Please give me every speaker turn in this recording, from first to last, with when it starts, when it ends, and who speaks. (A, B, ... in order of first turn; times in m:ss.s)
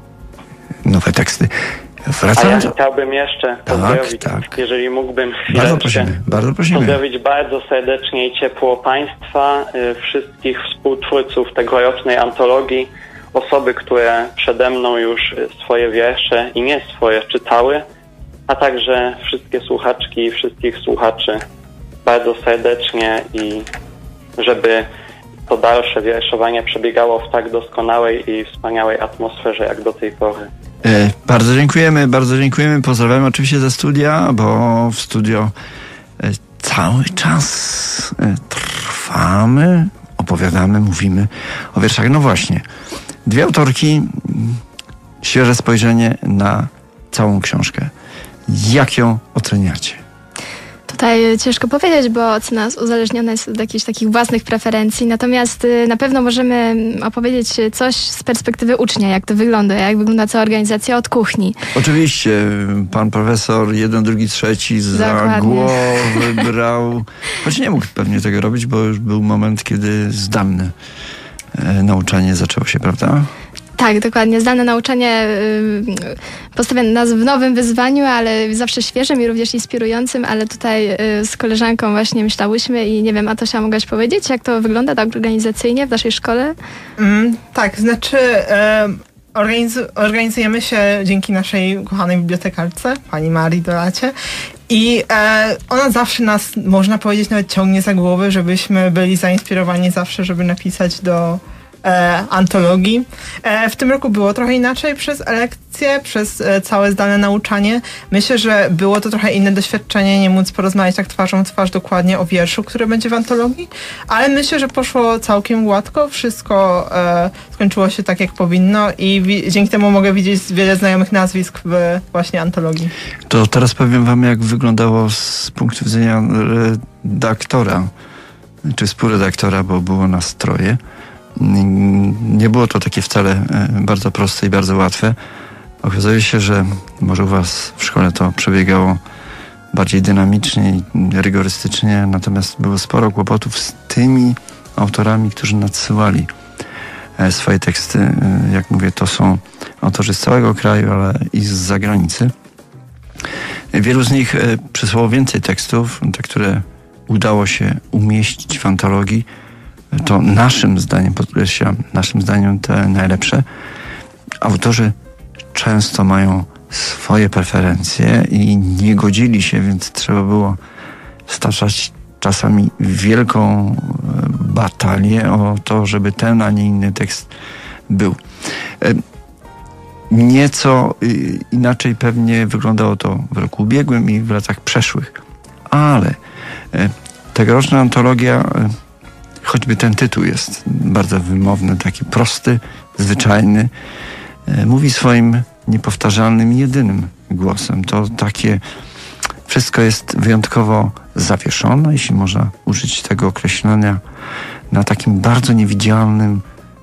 0:00.8-0:02.7 A
0:02.3-0:06.2 B
0:03.7-0:04.5 A
0:05.5-0:07.0 A
0:06.7-0:17.8 B
0:18.5-0:21.4 B
0:22.0-0:23.7 B
0:24.4-0:24.9 B
0:25.5-0:30.5 B
0:30.8-0:35.5 A
0:36.2-0:42.6 A
0:43.2-0:44.6 A
0:45.2-0:47.9 A
0:48.5-0:50.0 A
0:50.9-1:01.6 C
1:01.7-1:10.7 A
1:04.9-1:06.3 C
1:11.5-1:13.3 A
1:13.8-1:26.5 C
1:27.0-1:34.1 D
1:34.7-2:02.9 D
2:03.3-2:07.9 A
2:08.6-2:10.8 A
2:11.4-2:15.2 A
2:15.8-2:19.0 A
2:19.7-2:26.3 A
2:27.2-2:32.3 A
2:33.7-2:39.3 A
2:39.9-2:43.4 A
2:44.4-2:44.9 A
2:45.5-2:50.6 A
2:51.3-2:57.3 A
2:57.9-2:59.0 A
3:00.1-3:06.2 A
3:06.7-3:08.8 A
3:09.4-3:13.7 A
3:14.5-3:18.6 A
3:19.5-3:24.0 A
3:24.7-3:26.4 A